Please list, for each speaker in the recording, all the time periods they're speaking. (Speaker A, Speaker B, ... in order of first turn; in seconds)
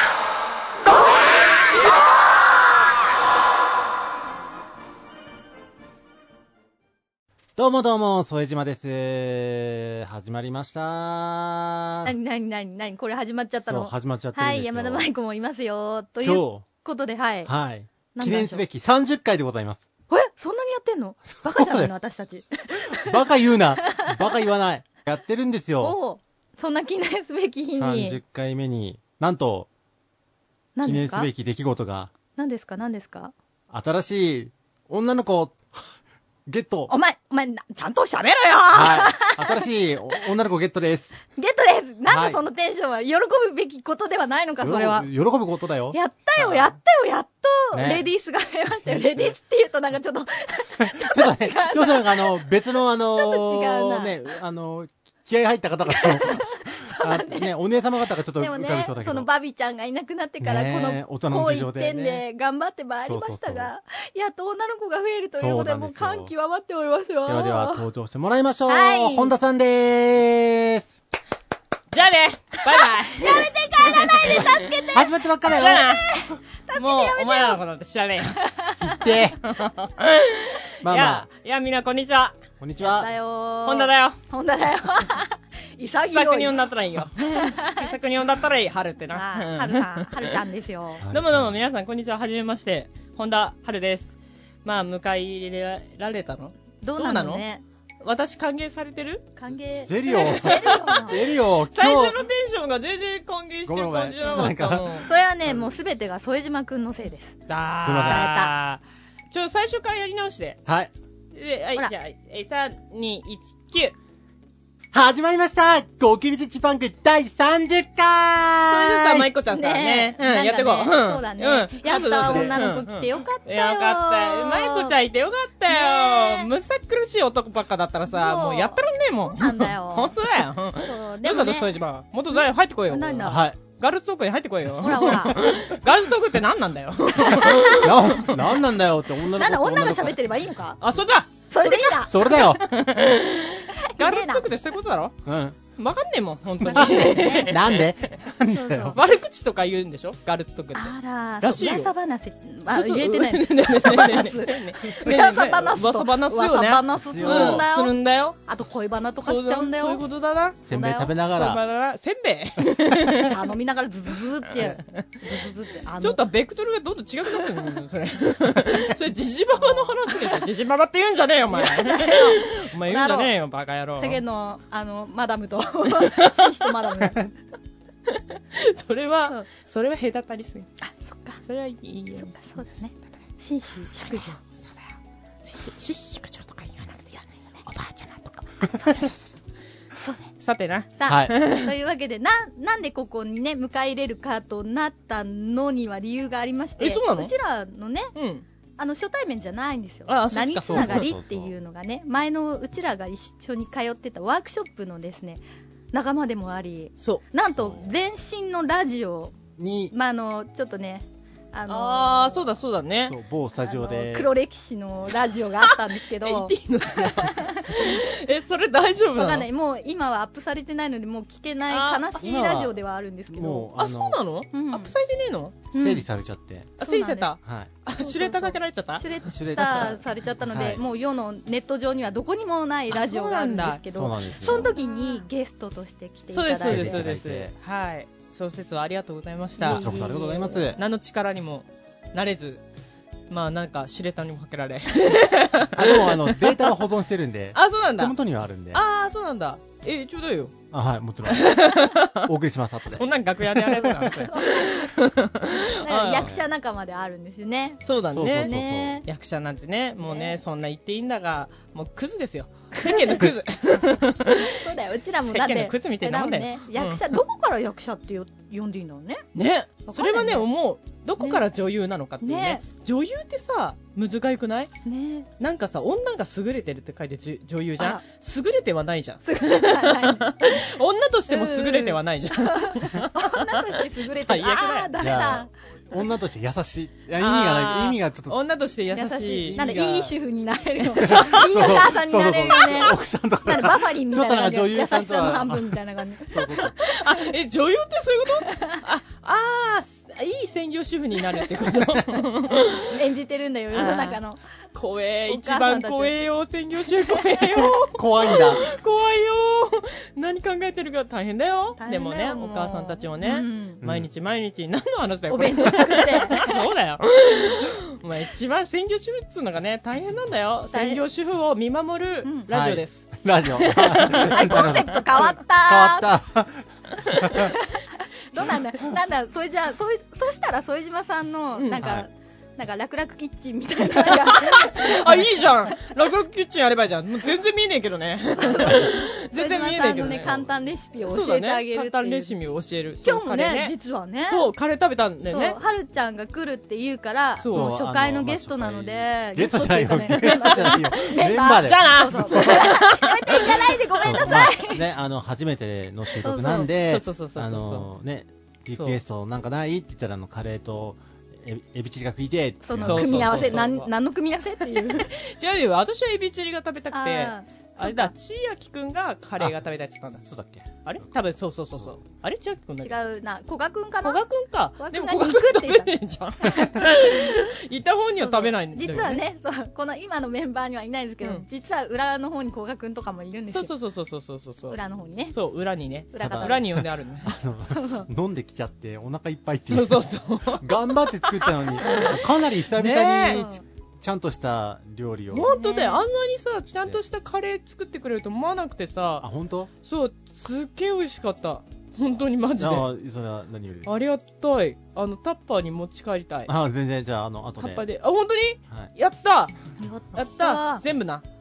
Speaker A: 7.6-12.1, 13.7-15.1, 16.2-16.7, 17.5-19.9, 21.3-21.9, 22.8-26.0, 27.8-29.7, 30.8-32.1, 33.7-36.9, 38.7-41.2, 42.1-42.4, 44.6-46.8, 47.7-48.1, 48.7-49.4, 50.8-59.3, 60.4-62.2, 63.0-63.7, 65.4-66.3, 67.3-71.0, 74.9-76.0, 78.8-79.4, 80.8-81.3, 82.6-83.1, 91.0-91.6, 99.7-102.2, 103.7-105.0, 107.8-108.3, 110.7-110.9, 114.9-119.3, 122.2-122.7, 133.2-133.6, 137.6-140.2, 142.0-142.7, 145.2-145.6, 146.8-149.0, 157.0-157.7, 160.7-161.6, 191.1-191.3, 200.7-201.5, 207.5-207.9, 209.6-209.9, 213.1-214.3, 222.2-222.7, 223.3-224.2, 225.7-226.8, 227.4-227.7, 229.2-230.8, 233.9-234.8, 236.6-237.5, 239.6-240.8, 245.7-248.8, 250.7-254.0, 256.1-256.4, 258.1-259.0, 263.0-263.3, 285.0-288.4, 289.4-289.8, 291.0-296.8, 307.7-308.6, 313.8-314.1, 322.5-327.6, 331.7-332.1, 347.4-352.7, 354.0-363.7, 370.2-371.0, 386.2-395.6, 396.7-397.0, 399.2-399.7, 402.6-404.0, 406.5-407.9
Speaker B: 12.1-17.5, 18.1-18.6, 20.1-23.2, 23.8-24.1, 25.8-28.2, 30.8-31.3, 32.4-33.3, 36.9-39.7, 41.3-45.1, 45.9-52.5, 53.1-54.1, 55.9-57.5, 58.4-67.8, 68.7-69.3, 72.6-77.6, 78.3-79.1, 82.8-86.6, 87.2-88.0, 89.1-91.0, 96.8-97.6, 99.4-101.3, 105.0-107.4, 108.0-108.5, 119.5-125.0, 125.7-126.5, 128.1-130.1, 130.8-131.7, 132.3-133.4, 134.8-135.5, 137.1-137.9, 139.3-140.8, 141.5-142.5, 143.7-144.5, 146.6-147.6, 148.5-149.0, 150.8-160.0, 160.7-161.2, 163.2-166.2, 169.5-170.4, 171.5-173.3, 174.0-177.3, 180.8-181.4, 182.2-184.4, 188.8-189.0, 190.0-190.3, 190.9-198.1, 198.8-209.3, 209.9-212.6, 213.6-218.0, 219.2-223.7, 224.5-224.9, 225.7-226.1, 226.8-227.3, 228.0-237.0, 239.6-240.7, 254.2-254.9, 255.8-257.8, 258.4-259.1, 260.0-260.4, 262.8-263.3, 264.4-269.2, 269.9-270.5, 272.2-272.6, 274.8-275.3, 277.8-278.0, 279.2-280.7, 281.3-285.5, 288.9-297.3, 298.4-298.8, 302.8-304.4, 305.3-306.2, 306.9-307.7, 311.8-313.8, 315.3-316.6, 320.7-321.0, 322.2-322.5, 324.1-326.1, 327.3-335.9, 338.4-342.4, 343.0-344.4, 345.3-354.8, 356.2-356.7, 362.6-365.2, 366.9-368.1, 372.8-374.2, 374.8-375.9, 376.4-377.4, 378.2-383.7, 384.7-385.4, 386.1-386.7, 387.7-388.1, 393.3-393.6, 395.4-396.1, 409.8-410.8
Speaker C: 71.9-74.9, 75.5-76.1, 76.7-78.5, 79.4-82.4, 83.6-84.2, 86.0-90.4, 91.1-97.5, 98.0-99.3, 100.1-101.2, 101.7-105.1, 107.5-110.6, 111.3-114.0, 118.7-138.6, 140.8-145.2, 145.8-148.1, 148.9-151.9, 152.7-158.4, 159.2-160.6, 161.2-163.4, 164.5-165.4, 166.0-174.2, 176.0-176.9, 178.1-180.7, 181.4-182.6, 183.9-184.8, 185.4-189.3, 190.4-191.7, 196.8-197.3, 198.2-198.4, 200.1-201.1, 211.7-213.2, 215.6-219.5, 221.7-222.1, 223.8-225.6, 226.8-229.2, 232.9-233.8, 234.4-234.8, 236.3-240.0, 240.8-242.6, 243.3-246.8, 247.6-248.2, 248.7-250.6, 251.3-252.3, 252.9-256.3, 257.8-267.0, 269.4-274.7, 275.4-285.1, 287.2-290.2, 296.8-303.0, 303.7-304.2, 304.8-324.7, 334.1-340.3, 341.0-343.7, 344.3-345.6, 347.4-347.7, 350.2-350.9, 351.5-353.7, 356.4-357.9, 358.7-359.0, 362.8-363.9, 364.8-370.2, 370.9-373.0, 374.0-379.2, 381.2-381.5, 383.5-384.8, 385.3-387.4, 389.7-393.4, 395.3-399.3, 399.8-402.9, 403.9-406.5, 407.6-409.6, 410.1-411.2